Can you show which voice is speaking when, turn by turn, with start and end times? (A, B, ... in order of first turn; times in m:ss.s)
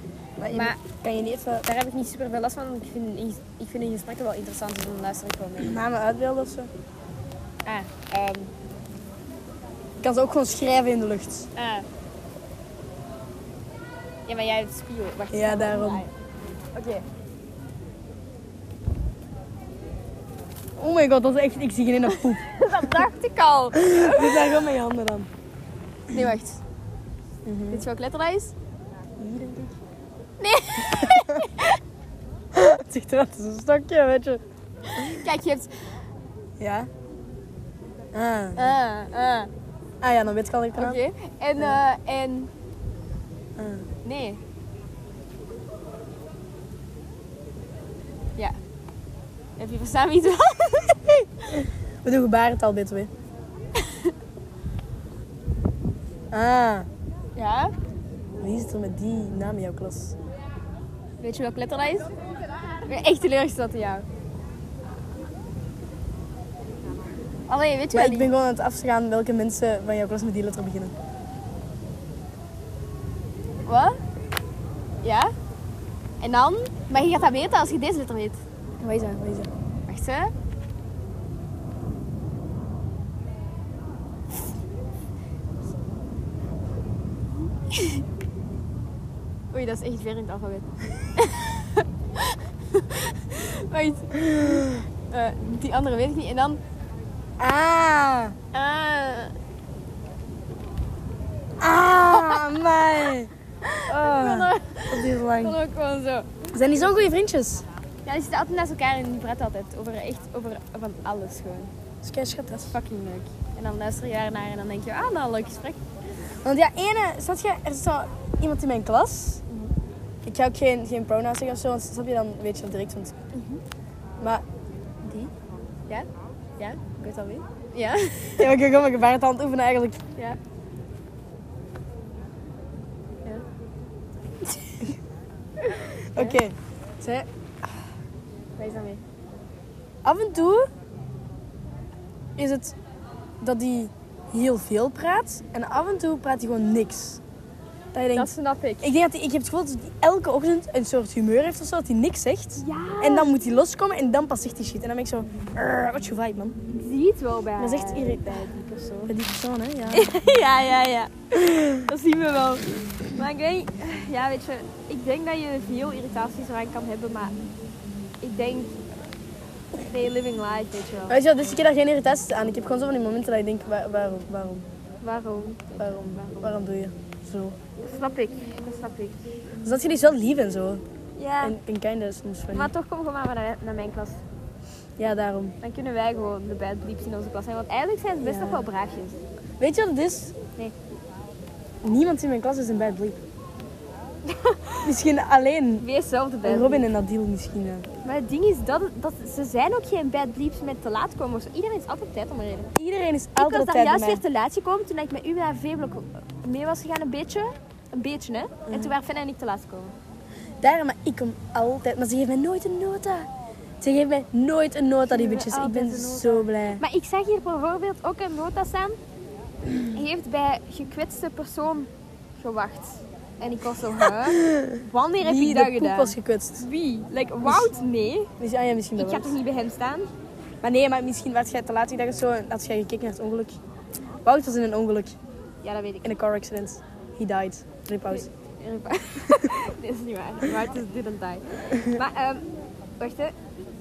0:00.4-0:01.7 A
0:00.5-0:00.8 B
0:01.6-0:05.8 B
0:05.6-0:06.7 A
0:07.6-0:08.5 B
0:10.0-0:11.5 A
0:11.6-0:11.9 B
0:14.3-0:16.1 B
0:15.3-0:16.0 A
0:16.8-0:17.0 B
0:20.8-0:22.4 A
0:22.1-0:24.7 B
0:23.7-0:25.3 A
0:26.1-0:26.6 B
0:27.4-0:27.9 A
0:27.7-0:28.5 B
0:29.2-0:29.8 A
0:30.4-0:31.8 B
0:30.9-0:31.5 A
0:32.5-0:34.4 A
0:34.8-0:35.9 B
0:36.6-0:36.9 A
0:38.1-0:38.7 A
0:38.6-0:39.5 B
0:40.0-0:41.0 A
0:40.8-0:42.5 B
0:43.6-0:43.9 A
0:44.0-0:44.4 B
0:49.6-0:51.2 B
0:51.5-0:53.1 A
0:53.8-0:54.1 B
0:56.3-0:56.9 A
0:57.4-0:57.7 B
0:58.4-1:00.2 A
1:01.2-1:02.1 B
1:02.8-1:04.1 B
1:07.5-1:08.3 B
1:07.9-1:11.0 A
1:13.7-1:14.0 B
1:15.0-1:15.3 B
1:16.2-1:18.4 B
1:18.8-1:19.5 A
1:19.9-1:20.3 B
1:27.7-1:28.0 B
1:29.5-1:36.6 B
1:34.2-1:34.9 A
1:37.4-1:38.4 A
1:38.5-1:39.3 B
1:41.6-1:43.3 A
1:42.1-1:42.4 B
1:43.6-1:47.0 B
1:43.9-1:45.6 A
1:46.5-1:47.6 A
1:48.0-1:51.7 B
1:52.0-1:52.8 A
1:52.7-1:55.8 B
1:56.4-1:59.4 A
2:00.2-2:03.2 A
2:03.3-2:03.6 B
2:06.6-2:08.6 B
2:08.4-2:10.0 A
2:15.6-2:16.4 B
2:16.1-2:17.3 A
2:18.6-2:19.0 B
2:20.0-2:20.7 A
2:22.4-2:22.8 A
2:23.4-2:27.2 A
2:27.9-2:36.6 A
2:28.1-2:28.9 B
2:32.6-2:33.4 B
2:36.7-2:39.1 B
2:37.6-2:38.3 A
2:39.1-2:40.1 A
2:39.9-2:47.4 B
2:41.4-2:41.9 A
2:48.2-2:48.8 B
2:49.8-2:51.2 B
2:51.1-2:54.7 A
2:55.0-2:56.6 B
2:55.8-2:57.6 A
2:57.8-2:59.2 B
2:59.6-3:00.8 A
3:01.2-3:01.6 B
3:01.4-3:02.7 A
3:02.5-3:04.2 B
3:05.0-3:05.6 A
3:05.6-3:09.2 B
3:08.2-3:08.7 A
3:09.6-3:10.4 A
3:11.8-3:13.2 A
3:14.3-3:14.9 B
3:14.8-3:15.9 A
3:15.8-3:16.9 B
3:16.4-3:17.9 A
3:18.0-3:22.7 B
3:22.8-3:24.2 A
3:23.4-3:29.9 B
3:28.7-3:29.0 A
3:30.6-3:33.3 A
3:33.8-3:36.8 A
3:35.0-3:39.0 B
3:39.9-3:48.3 B
3:44.2-3:46.6 A
3:47.4-3:47.7 A
3:48.4-3:49.4 A
3:49.0-3:50.1 B
3:50.6-3:53.6 A
3:54.2-3:55.2 A
3:55.6-3:56.1 B
3:56.0-3:58.3 A
3:58.1-4:02.5 B
4:01.7-4:02.0 A
4:03.0-4:03.4 B